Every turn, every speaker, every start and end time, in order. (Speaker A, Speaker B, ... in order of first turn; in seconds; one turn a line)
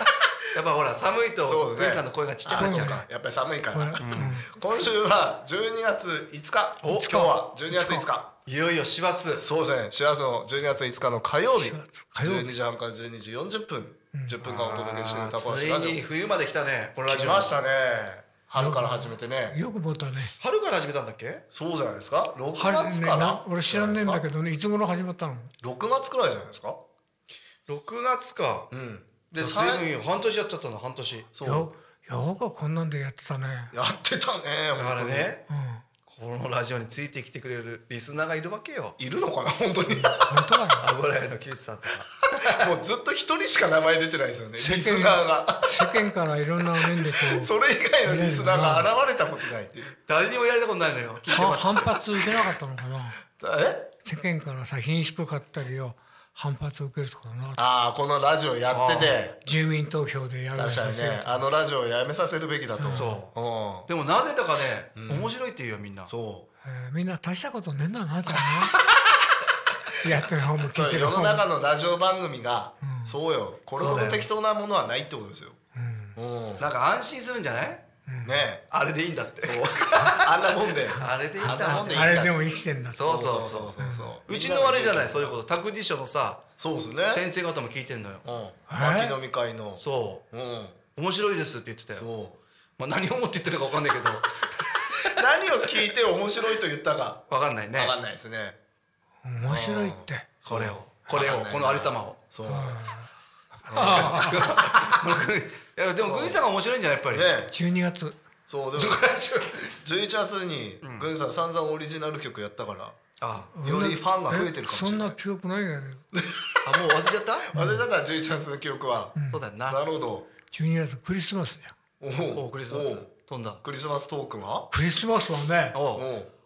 Speaker A: 0.5-3.0
Speaker B: 1.4-8.3
Speaker C: 2.5-3.1
Speaker C: 3.7-4.5
Speaker A: 4.0-4.3
Speaker A: 6.8-7.1
Speaker C: 6.9-8.1
Speaker A: 8.4-9.4
Speaker B: 9.3-16.0
Speaker C: 11.5-12.5
Speaker C: 14.1-14.4
Speaker A: 14.4-17.5
Speaker B: 17.1-19.6
Speaker C: 18.6-20.3
Speaker A: 20.4-21.4
Speaker B: 21.5-24.2
Speaker C: 22.5-25.5
Speaker B: 25.6-26.8
Speaker A: 27.7-28.7
Speaker B: 28.7-29.9
Speaker A: 29.4-31.3
Speaker B: 31.3-31.7
Speaker C: 31.4-33.7
Speaker B: 33.7-35.4
Speaker A: 34.8-35.4
Speaker C: 35.5-35.8
Speaker A: 36.1-39.0
Speaker B: 39.0-40.5
Speaker C: 39.9-40.9
Speaker A: 40.8-42.7
Speaker B: 42.5-46.0
Speaker C: 44.6-47.5
Speaker B: 46.7-50.0
Speaker C: 48.0-48.9
Speaker A: 50.1-52.2
Speaker C: 51.3-53.2
Speaker B: 53.4-53.9
Speaker C: 54.0-57.6
Speaker B: 57.6-59.4
Speaker A: 58.7-59.1
Speaker C: 59.4-61.4
Speaker B: 60.5-63.9
Speaker C: 62.8-63.1
Speaker A: 62.9-63.3
Speaker A: 63.9-66.1
Speaker B: 65.0-65.3
Speaker B: 66.1-66.5
Speaker C: 66.6-68.7
Speaker C: 70.0-71.4
Speaker B: 70.7-75.6
Speaker C: 72.8-73.2
Speaker A: 73.8-74.3
Speaker C: 75.7-76.2
Speaker B: 76.1-76.6
Speaker A: 76.6-77.8
Speaker C: 78.0-78.4
Speaker B: 78.2-78.6
Speaker A: 78.7-80.3
Speaker B: 79.4-82.3
Speaker A: 81.0-82.3
Speaker C: 81.0-83.1
Speaker A: 82.9-83.7
Speaker B: 82.9-85.3
Speaker C: 83.8-84.2
Speaker A: 84.2-86.4
Speaker B: 86.6-87.2
Speaker A: 87.1-88.2
Speaker B: 88.2-90.8
Speaker C: 88.7-89.2
Speaker A: 89.8-90.2
Speaker A: 91.0-92.1
Speaker B: 91.9-92.4
Speaker A: 92.8-95.0
Speaker B: 95.0-97.2
Speaker A: 97.3-97.9
Speaker B: 97.7-98.6
Speaker C: 99.2-100.3
Speaker B: 99.4-102.9
Speaker A: 100.5-102.2
Speaker C: 102.5-103.1
Speaker C: 103.6-104.5
Speaker B: 103.7-104.9
Speaker A: 103.8-107.3
Speaker B: 106.0-106.4
Speaker B: 107.1-107.5
Speaker C: 107.5-108.2
Speaker B: 108.5-113.0
Speaker A: 108.7-109.4
Speaker A: 110.8-111.1
Speaker A: 113.2-113.5
Speaker C: 113.5-116.0
Speaker B: 113.6-115.2
Speaker B: 116.1-116.8
Speaker A: 116.6-117.5
Speaker B: 117.5-120.3
Speaker C: 117.5-117.8
Speaker C: 119.1-119.4
Speaker A: 119.3-119.8
Speaker C: 120.5-121.7
Speaker B: 122.0-123.1
Speaker A: 122.3-123.6
Speaker B: 123.6-124.7
Speaker C: 124.7-125.8
Speaker A: 125.7-126.0
Speaker B: 125.9-126.3